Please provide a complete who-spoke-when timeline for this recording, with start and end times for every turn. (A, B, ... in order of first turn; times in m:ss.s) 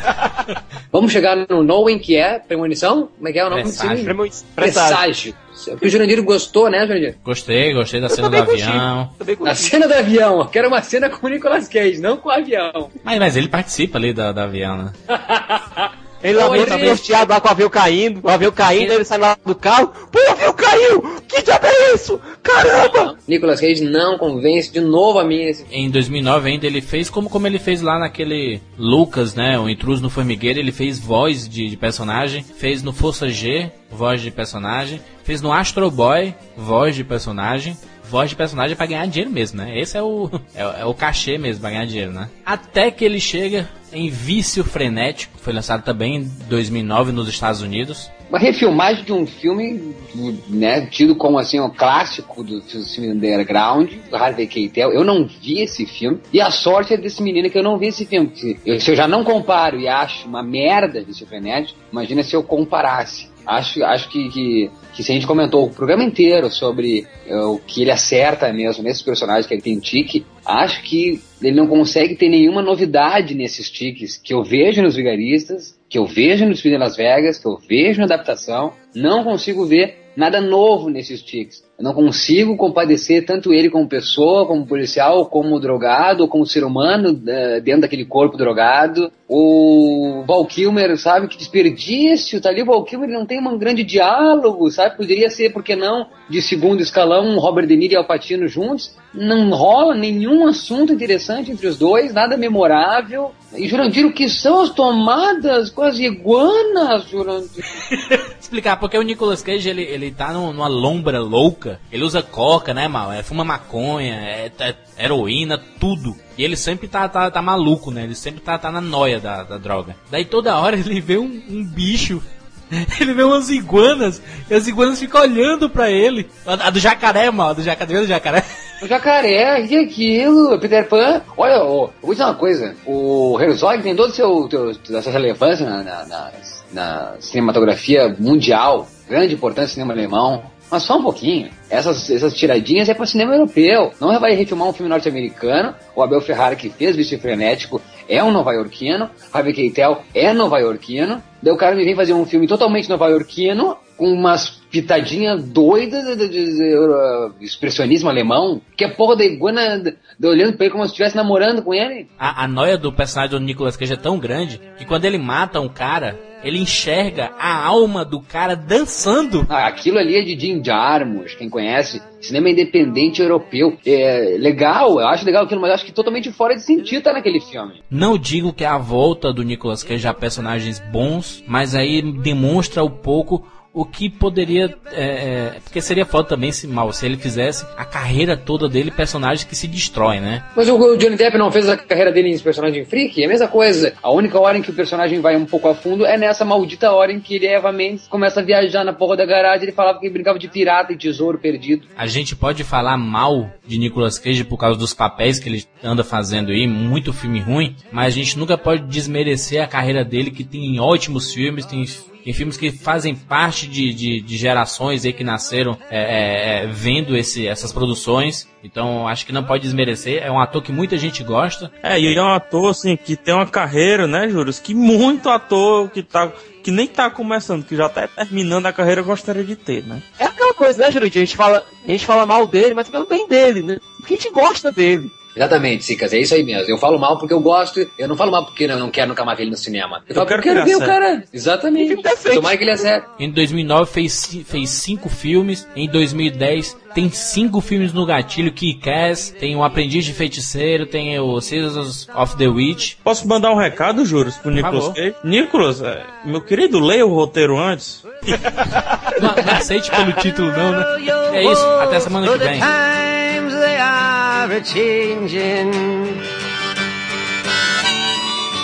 0:00.9-0:07.2 A
0:03.5-0:04.1 B
0:04.1-0:05.0 C
0:07.2-0:09.1 B
0:08.1-0:09.7 C
0:09.4-0:12.9 A
0:13.0-0:14.9 B
0:15.1-0:17.2 A
0:16.2-0:23.1 C
0:18.7-0:19.0 B
0:23.1-0:25.7 A
0:25.7-0:48.1 B
0:48.3-1:47.6 A
1:47.9-2:08.5 B
2:08.8-2:42.1 A
2:42.2-2:49.5 B
2:49.5-2:57.8 A
2:57.9-3:10.4 B
3:10.6-3:21.9 A
3:22.0-3:41.7 B
3:41.8-3:50.0 D
3:50.2-3:55.1 C
3:55.4-4:03.1 A
4:00.1-4:01.0 D
4:01.8-4:02.8 C
4:03.2-4:13.0 B
4:13.0-4:18.0 D
4:14.6-4:15.0 B
4:18.6-4:22.7 B
4:19.2-4:19.5 E
4:20.0-4:26.2 E